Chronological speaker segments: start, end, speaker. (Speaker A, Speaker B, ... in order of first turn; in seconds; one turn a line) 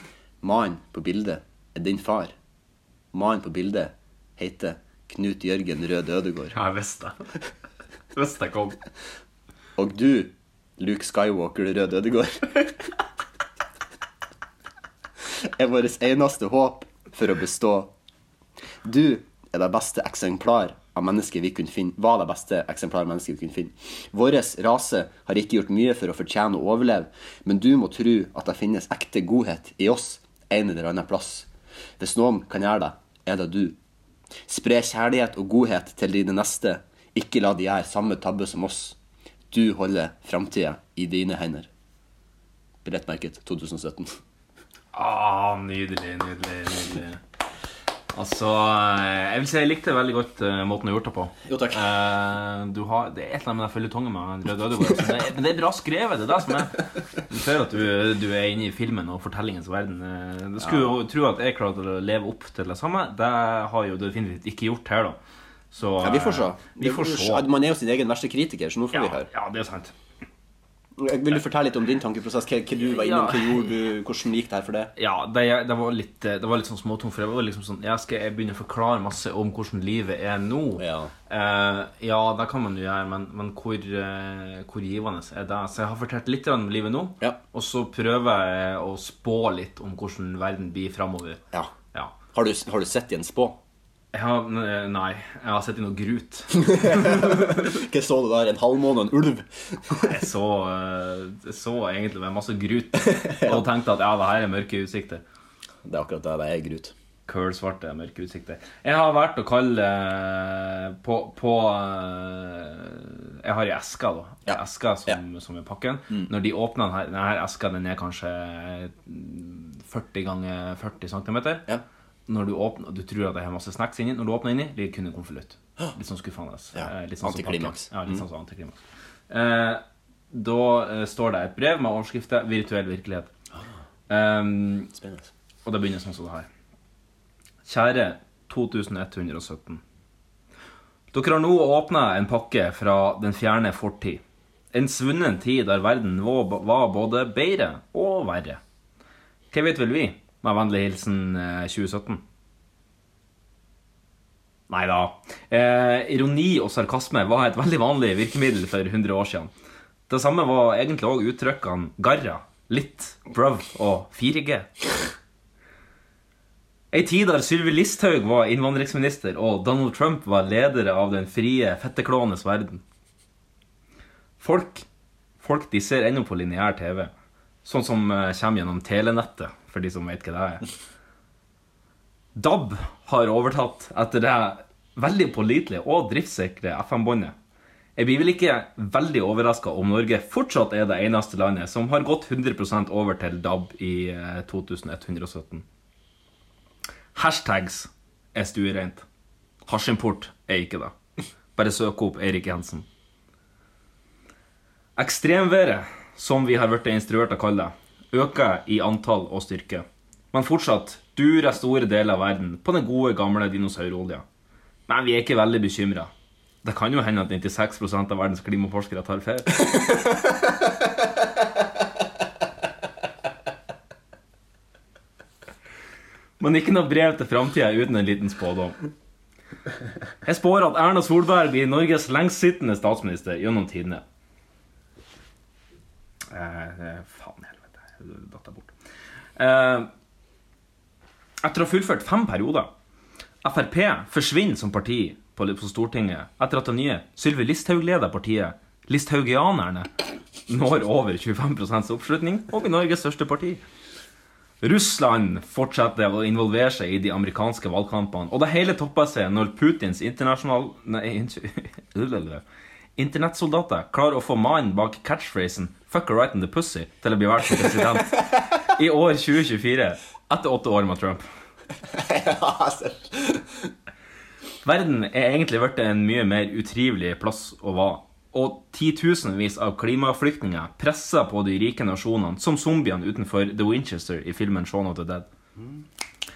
Speaker A: 0.4-2.3
Speaker A: 3.1-6.5
Speaker B: 6.5-7.1
Speaker B: 8.1-8.8
Speaker A: 9.8-12.7
Speaker A: 15.4-17.9
Speaker A: 18.8-31.5
Speaker A: 32.0-33.8
Speaker A: 34.5-39.0
Speaker A: 39.5-41.7
Speaker A: 42.8-44.1
Speaker B: 44.9-47.2
Speaker B: 48.1-65.2
Speaker A: 51.5-51.8
Speaker A: 60.6-60.9
Speaker B: 65.7-67.5
Speaker A: 66.0-69.3
Speaker B: 68.9-69.9
Speaker A: 71.0-74.9
Speaker B: 72.8-73.7
Speaker B: 75.0-92.2
Speaker A: 80.8-81.1
Speaker A: 92.3-93.6
Speaker B: 94.1-97.6
Speaker A: 96.6-100.0
Speaker B: 99.9-105.2
Speaker A: 103.0-103.6
Speaker A: 105.8-106.9
Speaker B: 107.3-121.7
Speaker A: 114.5-115.2
Speaker B: 122.3-133.3
Speaker A: 126.7-128.2
Speaker B: 134.1-134.9
Speaker A: 134.9-135.3
Speaker B: 135.6-136.5
Speaker B: 137.7-139.8
Speaker B: 141.1-144.2
Speaker B: 144.7-148.6
Speaker B: 149.5-152.2
Speaker B: 154.7-159.5
Speaker B: 160.1-164.7
Speaker B: 166.9-172.8
Speaker B: 174.4-174.8
Speaker B: 175.4-177.1
Speaker B: 177.6-180.6
Speaker B: 182.3-187.3
Speaker B: 187.9-195.6
Speaker B: 197.1-199.0
Speaker B: 199.7-200.9
Speaker B: 201.6-202.8
Speaker B: 205.0-214.2
Speaker B: 214.9-216.1
Speaker B: 216.6-219.7
Speaker B: 226.4-228.8
Speaker B: 230.2-234.0
Speaker B: 236.3-238.7
Speaker B: 239.3-239.9
Speaker B: 241.4-242.7
Speaker B: 243.4-249.9
Speaker B: 250.5-253.6
Speaker B: 254.6-262.4
Speaker B: 263.0-271.2
Speaker A: 271.9-273.5
Speaker B: 274.6-285.3